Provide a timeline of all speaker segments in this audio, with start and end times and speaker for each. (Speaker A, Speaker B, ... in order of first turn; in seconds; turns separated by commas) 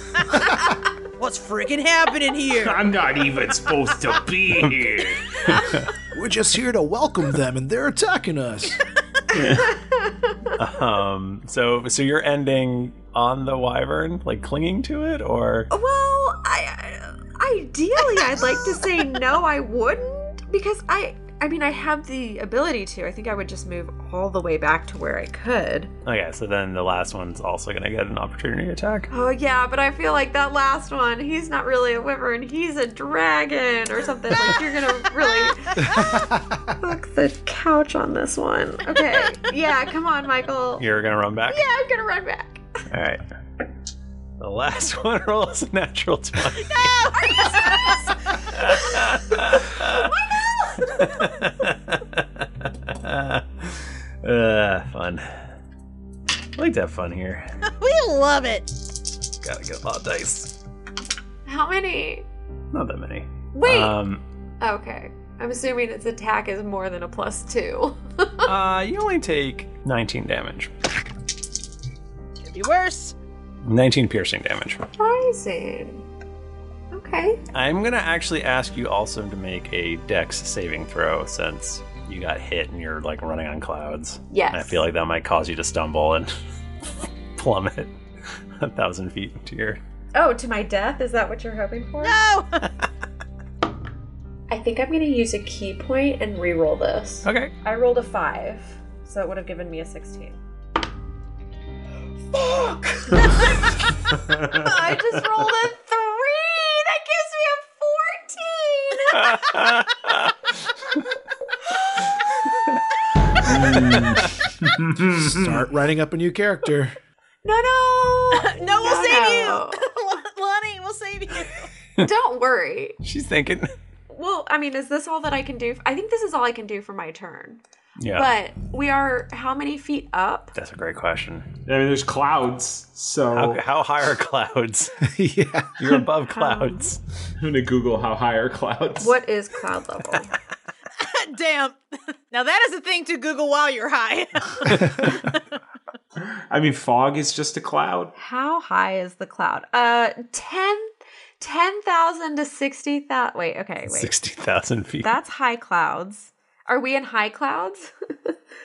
Speaker A: 1.2-2.8, Speaker B: 2.5-5.2, Speaker C: 4.6-4.9, Speaker C: 5.4-5.9, Speaker D: 6.1-8.8, Speaker B: 9.3-9.7, Speaker E: 9.6-10.4, Speaker C: 10.6-15.7, Speaker E: 15.7-25.9, Speaker C: 26.0-29.1, Speaker E: 29.1-36.2, Speaker D: 35.8-36.5, Speaker E: 36.8-40.8, Speaker C: 40.8-41.6, Speaker E: 41.5-42.6, Speaker C: 42.9-43.2, Speaker C: 44.4-47.0, Speaker A: 46.7-48.0, Speaker E: 47.2-48.9, Speaker C: 48.5-50.1, Speaker E: 49.5-51.4, Speaker C: 50.9-55.4, Speaker C: 56.5-57.5, Speaker A: 57.8-58.7, Speaker C: 59.4-60.5, Speaker E: 61.5-62.2, Speaker C: 62.7-64.2, Speaker E: 63.5-64.0, Speaker E: 64.6-68.5, Speaker C: 68.4-70.7, Speaker A: 72.5-73.2, Speaker C: 73.6-74.8, Speaker E: 75.0-76.0, Speaker E: 76.9-77.4, Speaker C: 77.5-86.3, Speaker E: 84.3-84.8, Speaker C: 87.3-87.9, Speaker C: 88.6-89.8, Speaker E: 90.1-92.2, Speaker A: 92.0-92.6, Speaker E: 94.5-100.4, Speaker C: 97.2-97.5, Speaker E: 102.3-109.7, Speaker B: 104.3-104.7, Speaker A: 104.9-105.2, Speaker C: 109.1-110.3, Speaker B: 113.5-115.7, Speaker C: 113.8-114.3, Speaker D: 115.2-116.9, Speaker E: 117.4-119.8, Speaker A: 118.3-121.7, Speaker E: 122.0-123.0, Speaker C: 123.0-123.7, Speaker E: 124.1-127.6, Speaker C: 128.0-128.3, Speaker E: 128.1-130.5, Speaker C: 130.5-131.5, Speaker B: 131.7-133.6, Speaker C: 133.3-134.9, Speaker D: 135.0-136.0, Speaker C: 135.8-137.0, Speaker E: 136.3-136.9, Speaker B: 137.4-139.1, Speaker E: 139.0-140.3, Speaker A: 141.0-141.8, Speaker A: 142.3-145.4, Speaker C: 144.7-145.2, Speaker B: 146.5-148.1, Speaker E: 148.2-154.1, Speaker C: 153.9-155.1, Speaker E: 155.0-158.4